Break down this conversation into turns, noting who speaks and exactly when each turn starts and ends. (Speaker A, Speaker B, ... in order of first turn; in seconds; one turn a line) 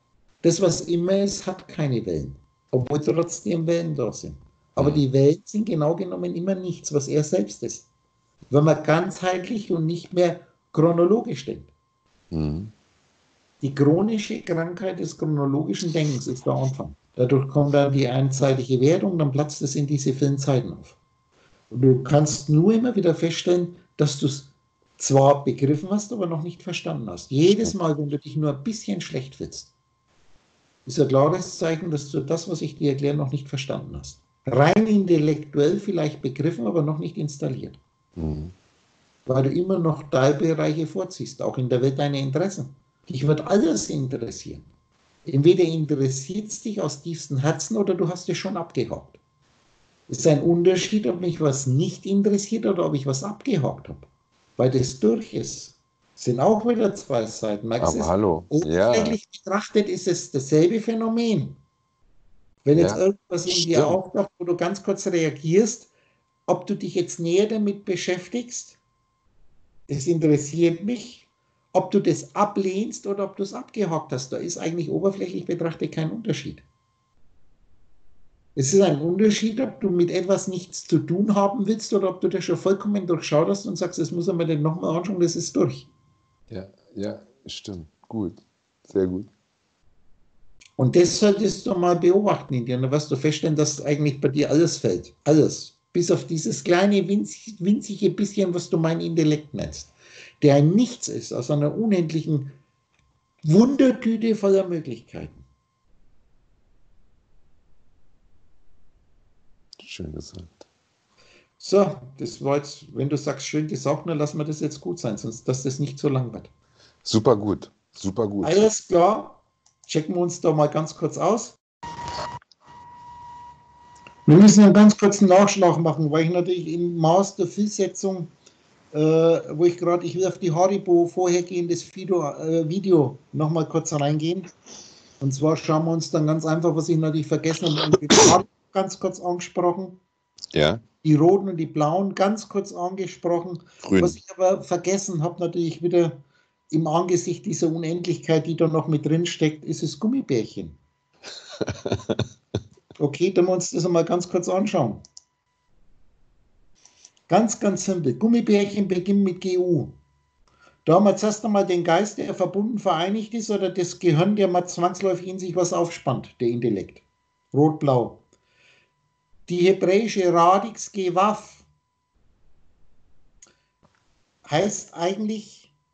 Speaker A: 0.4-7.9
Speaker A: 8.5-11.7
Speaker B: 12.3-12.7
Speaker A: 13.6-20.9
Speaker A: 21.7-29.7
Speaker A: 30.9-37.8
Speaker B: 38.2-38.5
Speaker A: 39.3-44.6
Speaker A: 45.2-49.2
Speaker A: 50.1-61.6
Speaker B: 57.8-59.2
Speaker A: 62.6-65.9
Speaker B: 62.7-64.0
Speaker A: 66.5-68.8
Speaker A: 69.9-76.6
Speaker A: 78.5-85.9
Speaker B: 86.5-89.3
Speaker A: 90.8-102.5
Speaker A: 103.4-105.4
Speaker B: 109.8-110.6
Speaker A: 111.6-116.5
Speaker B: 117.0-118.6
Speaker A: 118.4-121.6
Speaker A: 124.2-128.3
Speaker A: 128.9-134.5
Speaker A: 135.2-140.0
Speaker B: 140.5-140.8
Speaker A: 141.0-150.8
Speaker B: 143.8-144.2
Speaker B: 151.6-152.2
Speaker A: 153.0-155.0
Speaker A: 157.3-159.9
Speaker A: 160.8-168.2
Speaker A: 169.5-171.6
Speaker A: 174.4-175.7